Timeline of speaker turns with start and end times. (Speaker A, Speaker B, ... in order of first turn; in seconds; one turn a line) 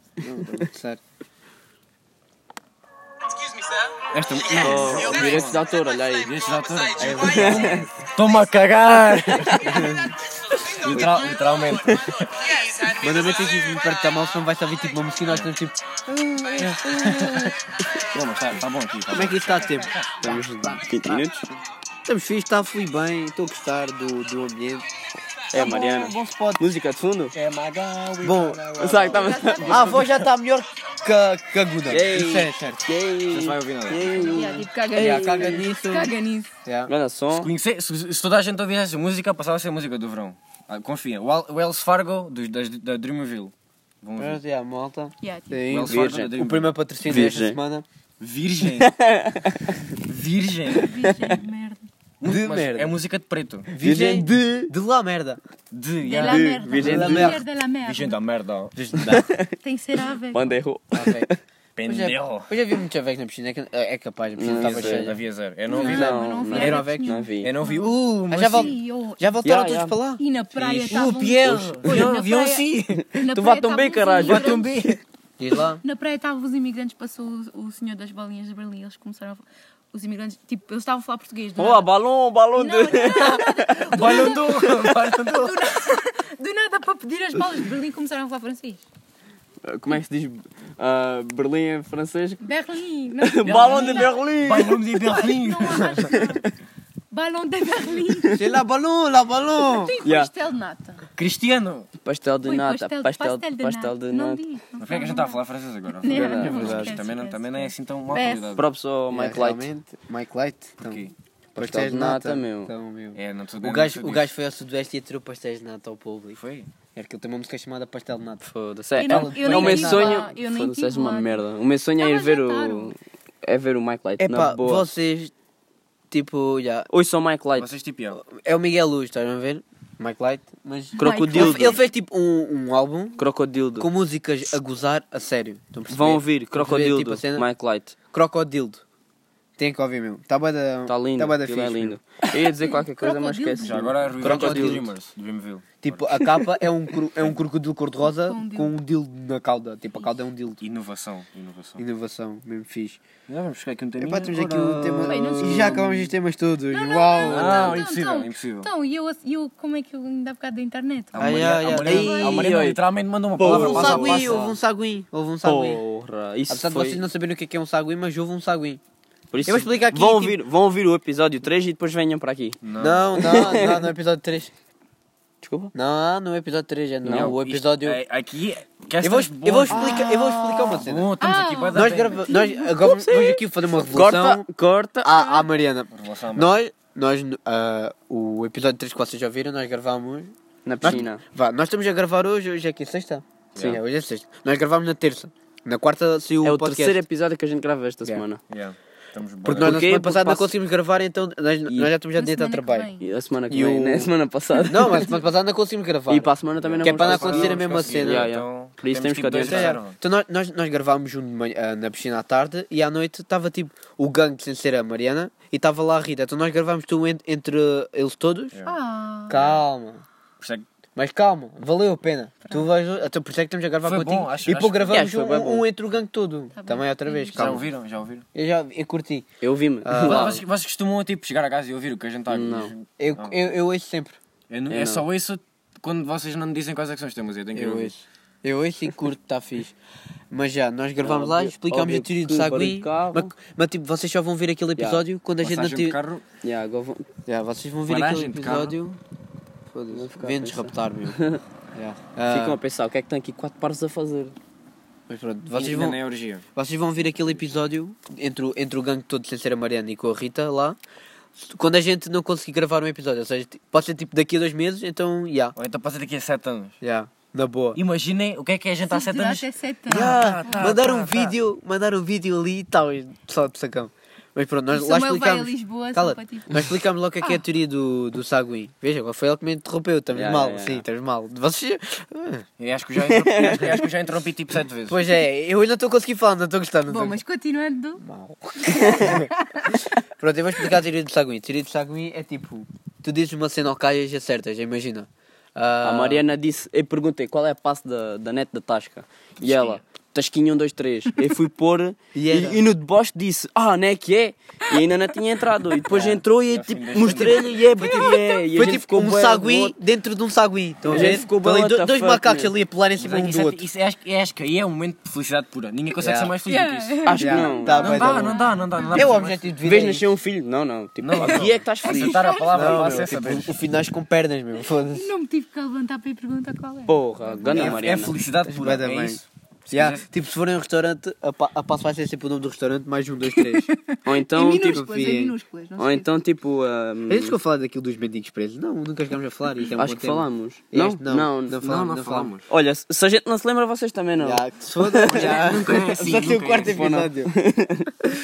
Speaker A: 0.2-1.0
Speaker B: 4.1-5.7
Speaker C: 4.6-6.3
Speaker B: 6.2-9.9
Speaker A: 7.0-7.8
Speaker C: 7.1-7.8
Speaker C: 9.5-10.1
Speaker B: 10.8-12.5
Speaker C: 10.8-11.2
Speaker A: 13.0-17.5
Speaker B: 16.6-20.1
Speaker A: 19.1-21.4
Speaker C: 20.2-21.4
Speaker A: 22.0-24.9
Speaker C: 25.5-27.3
Speaker A: 25.5-26.6
Speaker B: 27.3-30.1
Speaker A: 28.2-28.9
Speaker C: 28.8-30.0
Speaker D: 29.1-30.1
Speaker A: 29.6-32.9
Speaker C: 31.9-35.6
Speaker B: 33.3-34.5
Speaker D: 34.3-36.5
Speaker A: 34.9-36.1
Speaker A: 36.6-36.9
Speaker C: 36.9-37.5
Speaker B: 37.3-44.4
Speaker A: 44.2-47.8
Speaker D: 45.2-45.6
Speaker B: 45.7-46.7
Speaker C: 45.9-46.4
Speaker C: 47.0-47.6
Speaker B: 48.2-48.9
Speaker C: 48.7-49.8
Speaker B: 49.9-51.0
Speaker D: 50.7-51.9
Speaker B: 52.2-53.7
Speaker A: 52.2-53.0
Speaker A: 53.7-55.4
Speaker C: 53.8-54.7
Speaker B: 55.7-57.3
Speaker D: 56.0-58.2
Speaker C: 56.1-57.3
Speaker A: 56.8-57.4
Speaker B: 57.8-59.1
Speaker A: 58.8-59.2
Speaker C: 58.9-59.5
Speaker D: 59.6-60.5
Speaker C: 60.3-61.4
Speaker A: 60.9-61.3
Speaker B: 61.8-62.5
Speaker A: 61.8-65.2
Speaker C: 64.4-65.1
Speaker B: 64.5-68.8
Speaker D: 65.7-69.3
Speaker C: 65.8-67.5
Speaker A: 66.5-67.1
Speaker A: 68.3-72.0
Speaker C: 69.4-70.0
Speaker D: 70.2-74.8
Speaker B: 70.6-73.0
Speaker C: 73.0-74.8
Speaker B: 74.2-75.0
Speaker A: 75.4-75.8
Speaker D: 75.8-81.9
Speaker C: 81.6-84.1
Speaker D: 82.5-88.8
Speaker B: 83.2-85.8
Speaker C: 89.6-92.4
Speaker D: 92.4-94.2
Speaker C: 93.2-94.8
Speaker B: 93.4-96.2
Speaker D: 94.9-96.4
Speaker C: 96.1-96.5
Speaker D: 97.1-98.5
Speaker C: 98.1-98.4
Speaker A: 98.3-99.9
Speaker D: 99.6-101.0
Speaker C: 100.0-100.3
Speaker B: 101.2-101.9
Speaker C: 102.0-104.4
Speaker D: 102.4-105.4
Speaker B: 104.8-108.6
Speaker D: 106.0-108.6
Speaker C: 106.1-106.7
Speaker A: 106.5-106.9
Speaker C: 108.5-109.7
Speaker A: 109.1-116.4
Speaker B: 110.8-111.1
Speaker C: 111.5-112.7
Speaker B: 113.1-114.3
Speaker B: 116.3-116.7
Speaker A: 116.9-118.4
Speaker C: 118.4-124.8
Speaker D: 119.0-121.4
Speaker A: 119.0-120.3
Speaker D: 122.0-123.0
Speaker A: 124.2-125.3
Speaker A: 126.1-126.9
Speaker C: 126.9-127.7
Speaker B: 127.6-128.2
Speaker A: 128.2-133.2
Speaker C: 131.0-131.8
Speaker D: 131.0-131.8
Speaker C: 133.2-133.9
Speaker A: 133.8-137.4
Speaker C: 135.9-137.9
Speaker A: 138.1-138.8
Speaker A: 139.6-142.0
Speaker C: 140.9-144.8
Speaker D: 142.5-143.9
Speaker B: 143.6-146.2
Speaker A: 144.2-144.9
Speaker A: 145.8-150.6
Speaker D: 148.1-148.7
Speaker B: 150.6-151.8
Speaker A: 151.8-153.0
Speaker B: 153.3-155.8
Speaker A: 154.0-157.8
Speaker D: 155.1-156.1
Speaker D: 156.7-162.5
Speaker B: 157.2-158.7
Speaker B: 161.1-164.5
Speaker A: 161.2-162.3
Speaker C: 162.2-162.8
Speaker C: 163.3-164.5
Speaker A: 163.4-165.8
Speaker C: 165.4-167.0
Speaker A: 166.5-168.8
Speaker C: 169.3-172.6
Speaker A: 169.4-170.4
Speaker B: 172.6-173.4
Speaker A: 172.8-174.5
Speaker C: 173.2-173.9
Speaker C: 175.4-175.7
Speaker A: 175.7-178.0
Speaker C: 177.0-177.3
Speaker B: 177.1-180.1
Speaker A: 179.0-181.1
Speaker D: 179.7-182.7
Speaker B: 180.8-182.3
Speaker A: 181.7-184.4
Speaker C: 182.8-185.2
Speaker A: 185.0-197.0
Speaker D: 185.1-185.5
Speaker B: 185.9-186.5
Speaker C: 190.6-191.2
Speaker B: 193.5-193.8
Speaker C: 196.4-198.4
Speaker B: 198.5-199.8
Speaker A: 199.4-202.9
Speaker C: 199.6-200.5
Speaker D: 202.1-203.0
Speaker C: 203.0-205.1
Speaker A: 203.5-204.1
Speaker A: 204.6-206.3
Speaker C: 206.1-209.8
Speaker B: 206.6-210.0
Speaker A: 206.8-208.3
Speaker A: 209.4-218.5
Speaker D: 218.6-219.3
Speaker A: 219.3-220.0
Speaker B: 219.3-219.6
Speaker B: 220.4-220.6
Speaker A: 220.9-227.6
Speaker B: 223.8-225.1
Speaker C: 224.9-225.7
Speaker D: 226.5-227.6
Speaker B: 227.3-228.2
Speaker A: 228.3-229.2
Speaker C: 229.4-230.4
Speaker A: 229.8-230.4
Speaker B: 230.0-233.4
Speaker C: 232.3-232.7
Speaker A: 233.0-234.2
Speaker B: 234.5-237.9
Speaker C: 234.7-235.1
Speaker A: 237.5-239.7
Speaker A: 240.3-246.0
Speaker C: 241.0-243.3
Speaker C: 244.8-245.0
Speaker B: 245.4-246.2
Speaker C: 246.4-247.1
Speaker A: 247.2-249.0
Speaker B: 247.9-248.8
Speaker A: 249.7-251.2
Speaker C: 249.9-251.4
Speaker A: 251.7-252.6
Speaker C: 252.3-254.3
Speaker A: 255.1-256.0
Speaker B: 255.5-256.4
Speaker A: 256.5-260.8
Speaker A: 261.4-265.6
Speaker B: 265.6-266.8
Speaker A: 266.8-267.8
Speaker B: 267.7-271.3
Speaker D: 268.9-270.7
Speaker A: 269.9-282.4
Speaker D: 274.7-277.4
Speaker C: 280.1-280.8
Speaker B: 282.6-285.0
Speaker C: 283.1-283.8
Speaker A: 284.9-287.2
Speaker D: 286.9-288.0
Speaker A: 288.0-289.3
Speaker D: 288.6-289.9
Speaker C: 288.8-289.0
Speaker A: 290.2-296.2
Speaker C: 295.8-309.8
Speaker B: 299.4-299.8
Speaker A: 302.1-302.6
Speaker A: 305.9-306.2
Speaker B: 306.4-308.0
Speaker A: 307.0-313.6
Speaker D: 307.8-308.1
Speaker C: 310.9-312.5
Speaker B: 313.0-319.5
Speaker A: 316.0-316.3
Speaker D: 316.4-319.2
Speaker C: 317.0-318.4
Speaker A: 317.2-318.4
Speaker A: 318.9-320.1
Speaker C: 319.6-323.4
Speaker B: 321.0-323.5
Speaker D: 321.8-322.7
Speaker A: 322.5-325.1
Speaker D: 324.9-326.9
Speaker C: 326.9-328.1
Speaker B: 327.2-330.0
Speaker A: 327.5-327.8
Speaker A: 328.4-333.7
Speaker D: 333.3-336.1
Speaker C: 334.0-334.8
Speaker A: 334.7-335.4
Speaker C: 335.8-337.4
Speaker A: 337.1-342.3
Speaker C: 339.8-341.6
Speaker B: 341.6-342.4
Speaker C: 342.5-347.9
Speaker A: 344.2-347.3
Speaker B: 345.1-346.8